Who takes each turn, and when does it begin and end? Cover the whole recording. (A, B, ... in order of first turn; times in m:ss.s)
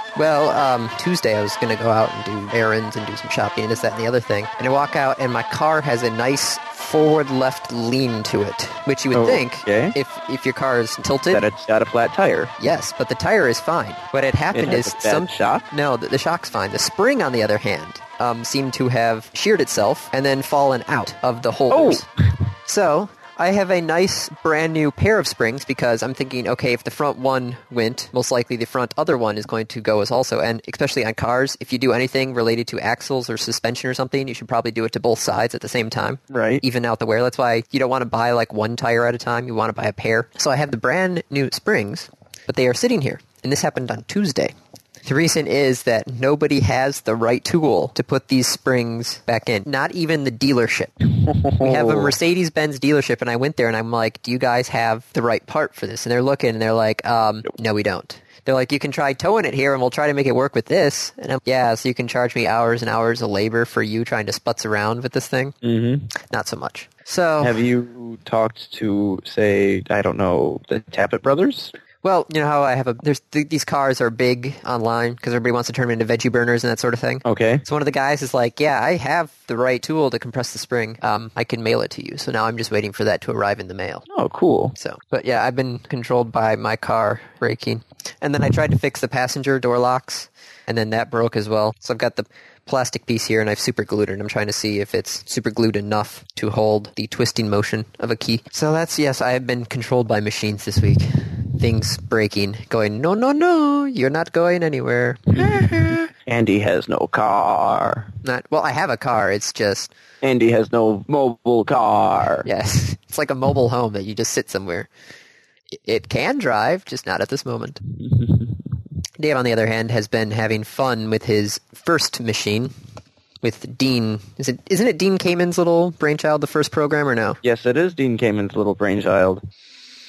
0:00.2-0:11.4 A
0:09.1-0:09.9 B
0:11.3-0:12.5 B
0:12.6-0:22.0 A
0:14.5-0:15.6 B
0:21.7-0:22.3 B
0:22.7-1:05.6 A
0:36.3-0:36.6 B
0:51.2-0:52.1 B
1:05.6-1:06.1 B
1:06.2-1:07.6 A
1:07.4-1:11.7 B
1:12.0-1:24.0 A
1:17.2-1:17.6 B
1:24.1-1:24.7 B
1:24.8-1:46.1 A
1:45.4-1:48.1 B
1:48.2-1:49.9 A
1:50.2-1:52.5 B
1:52.4-1:54.9 A
1:55.8-1:57.8 A
1:58.0-1:58.5 B
1:59.2-2:02.7 A
2:03.4-2:07.4 A
2:07.4-2:09.4 B